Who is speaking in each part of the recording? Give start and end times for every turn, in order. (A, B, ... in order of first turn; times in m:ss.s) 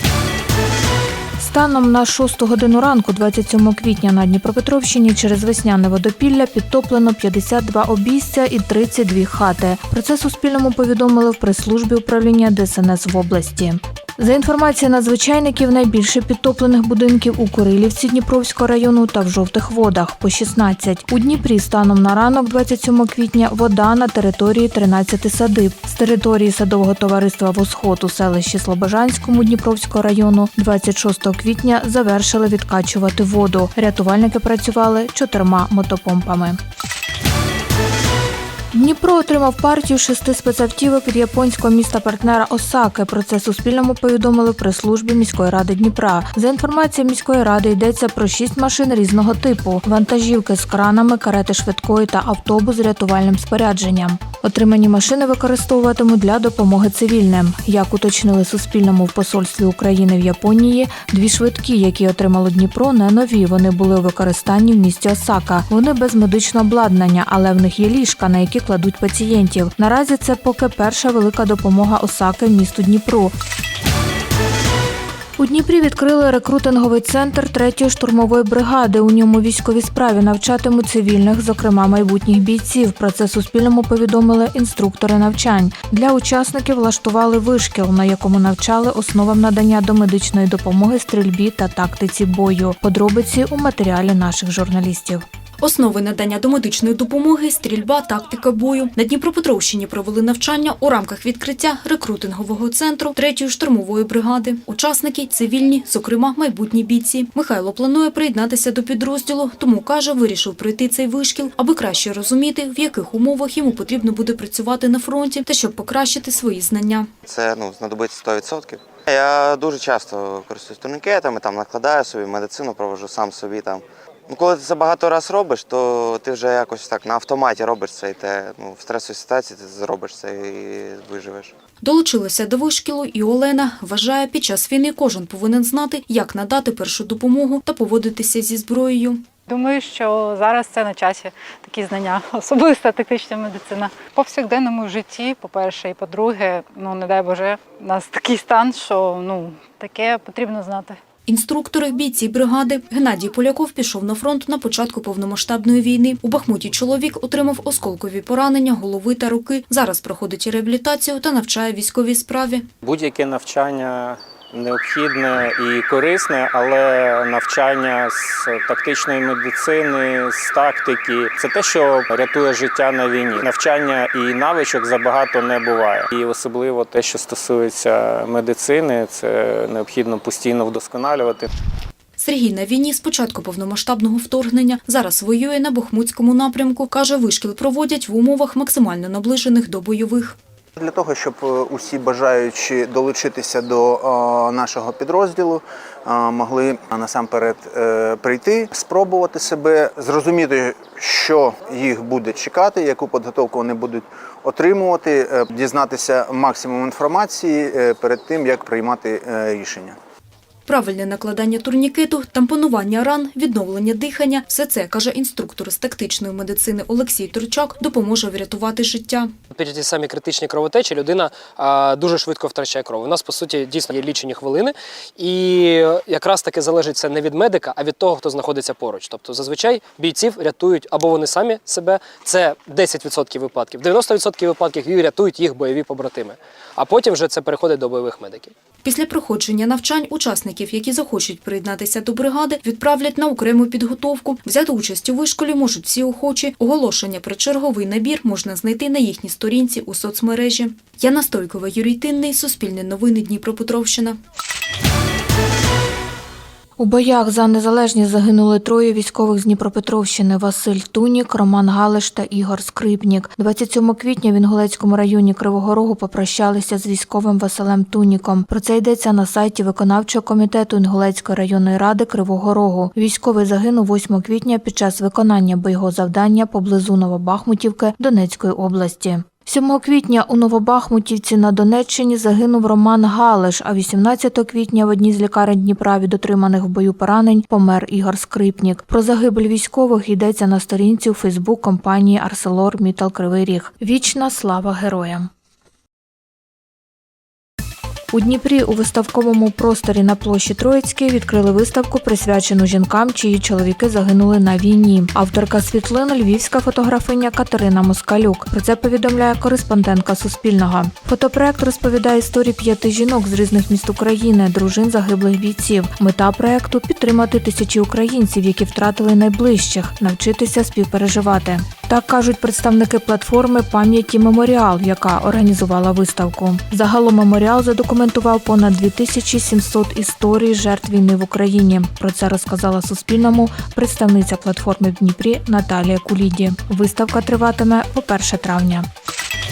0:01.4-0:36.6 A
0:38.7-1:13.3 A
1:15.4-1:35.2 A
1:35.6-1:57.1 B
1:57.2-2:11.5 C
2:11.8-2:19.2 B
2:19.5-2:31.0 D
2:31.3-2:42.6 B
2:42.8-3:01.5 E
3:02.2-3:10.4 B
3:10.8-3:30.0 F
3:30.7-3:39.3 B
3:39.5-3:58.5 G
3:58.8-4:14.2 B
4:16.8-4:55.3 A
4:58.1-5:38.9 A